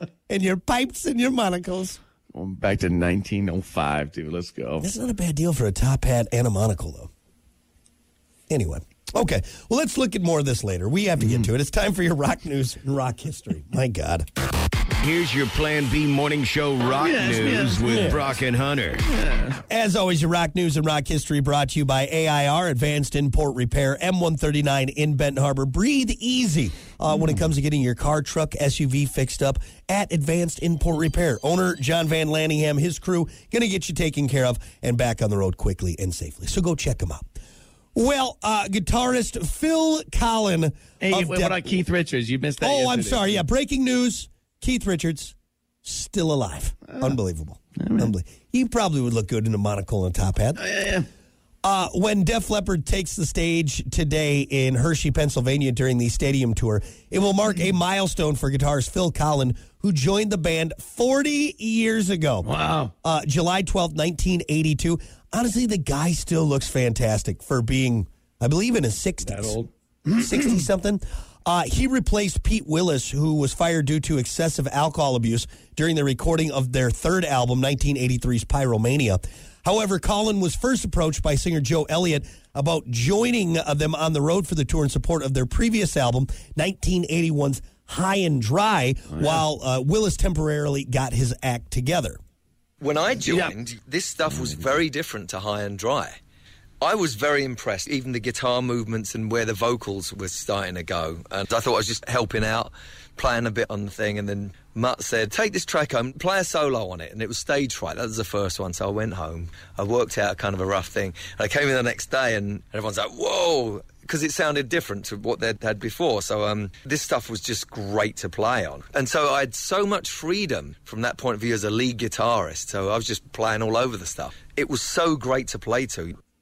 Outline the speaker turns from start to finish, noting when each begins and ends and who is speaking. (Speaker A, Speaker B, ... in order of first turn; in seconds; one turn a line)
Speaker A: 0.3-2.0
Speaker B: 2.3-4.9
Speaker A: 4.8-7.1
Speaker A: 8.5-14.2
Speaker B: 11.2-11.5
Speaker C: 15.0-19.0
Speaker B: 16.9-18.2
Speaker A: 17.8-18.2
Speaker B: 19.1-19.6
Speaker A: 19.7-37.4
Speaker A: 37.9-41.8
Speaker B: 41.0-43.4
Speaker A: 42.6-50.6
Speaker B: 46.9-47.1
Speaker B: 47.8-48.1
Speaker B: 50.6-51.1
Speaker A: 51.6-62.5
Speaker B: 62.4-62.9
Speaker A: 63.0-69.6
Speaker B: 69.2-70.6
Speaker A: 70.2-92.2
Speaker B: 89.1-89.4
Speaker D: 92.8-96.2
Speaker B: 93.2-93.5
Speaker B: 94.3-94.6
Speaker D: 96.8-126.1